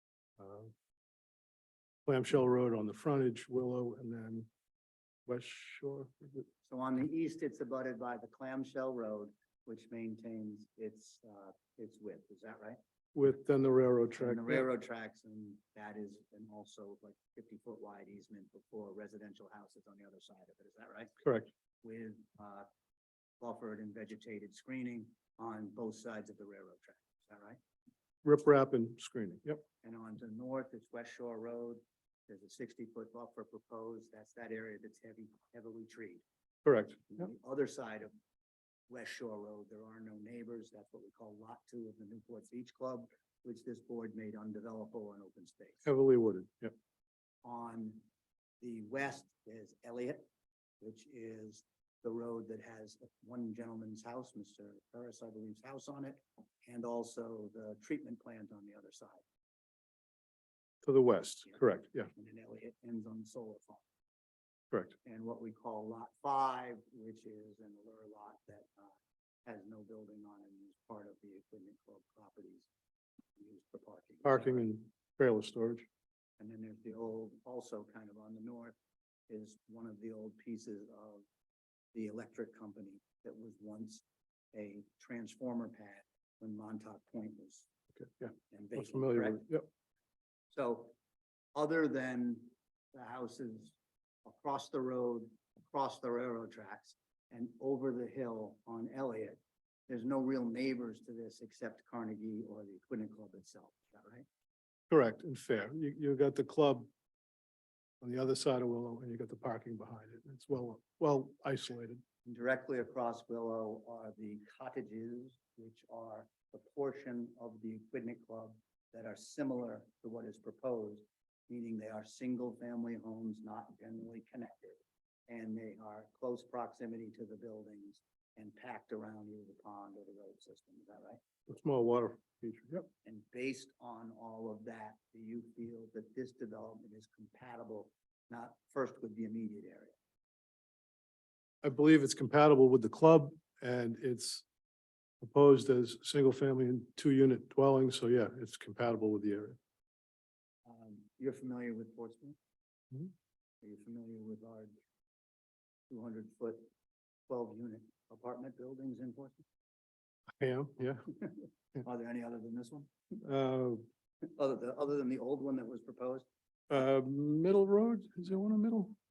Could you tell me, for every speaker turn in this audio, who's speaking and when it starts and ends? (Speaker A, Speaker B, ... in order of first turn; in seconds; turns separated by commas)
Speaker A: 0.4-0.7, Speaker A: 2.1-4.5, Speaker A: 5.3-6.5, Speaker B: 6.7-12.8, Speaker A: 13.2-14.7, Speaker B: 14.2-21.1, Speaker A: 21.2-21.5, Speaker B: 21.8-22.7, Speaker B: 23.4-27.6, Speaker A: 28.2-29.6, Speaker B: 29.8-36.2, Speaker A: 36.6-37.0, Speaker B: 37.1-38.1, Speaker B: 38.9-45.9, Speaker A: 45.9-46.7, Speaker B: 47.4-48.0, Speaker B: 48.6-50.2, Speaker B: 50.8-59.2, Speaker A: 60.8-62.1, Speaker B: 62.1-63.8, Speaker B: 65.0-68.9, Speaker B: 69.5-72.7, Speaker B: 73.4-74.7, Speaker A: 74.2-75.9, Speaker B: 76.4-78.8, Speaker B: 79.3-81.2, Speaker B: 81.9-87.7, Speaker A: 88.0-89.7, Speaker B: 88.5-89.4, Speaker B: 90.5-90.9, Speaker B: 91.5-104.3, Speaker A: 104.9-106.9, Speaker A: 108.0-112.0, Speaker B: 112.2-131.2, Speaker A: 131.5-132.9, Speaker B: 133.0-139.9, Speaker A: 141.6-144.4, Speaker A: 145.2-149.6, Speaker B: 150.7-152.4, Speaker B: 153.6-154.7, Speaker B: 155.9-156.6, Speaker B: 157.3-159.4, Speaker A: 160.4-161.1, Speaker B: 161.1-162.9, Speaker A: 163.2-163.8, Speaker B: 164.3-166.3, Speaker A: 166.7-168.9